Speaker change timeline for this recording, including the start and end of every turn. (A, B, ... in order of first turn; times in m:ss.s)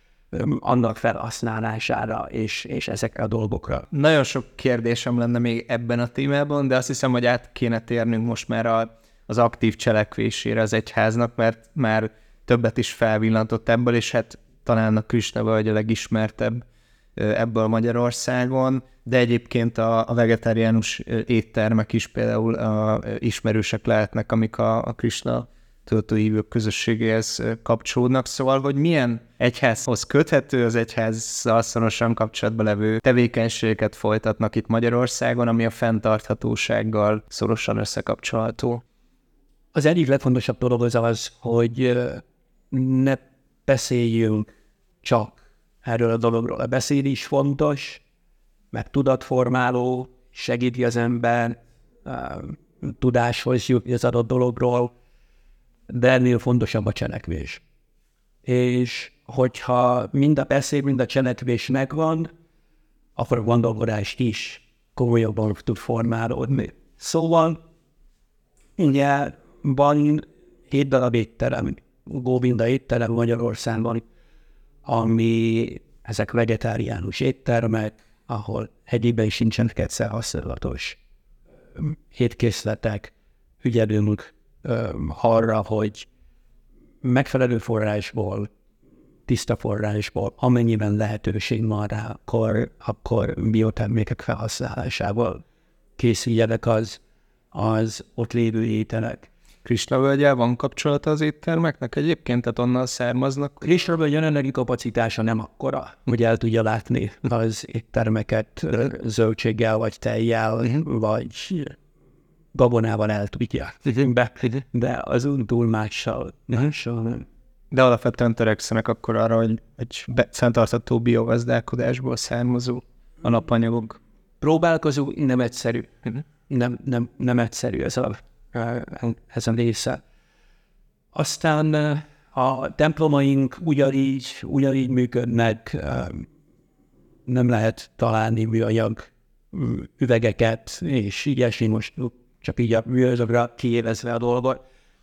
0:00.3-0:03.9 A
0:03.9-0:16.6 B
0:17.2-0:38.8 B
0:39.7-0:44.5 A
0:45.0-0:48.0 A
0:48.7-0:54.9 A
0:55.9-0:57.6 A
0:58.4-1:02.3 A
1:03.2-1:07.6 A
1:08.8-1:14.0 A
1:14.8-1:21.0 A
1:21.8-1:26.1 A
1:27.0-1:28.5 A
1:29.3-1:35.4 A
1:36.0-1:37.0 A
1:37.5-1:39.3 A
1:39.6-1:43.6 B
1:43.6-1:51.8 A
1:52.5-1:57.3 A
1:57.7-2:04.0 B
2:04.4-2:10.0 A
2:11.1-2:16.3 A
2:17.3-2:24.6 A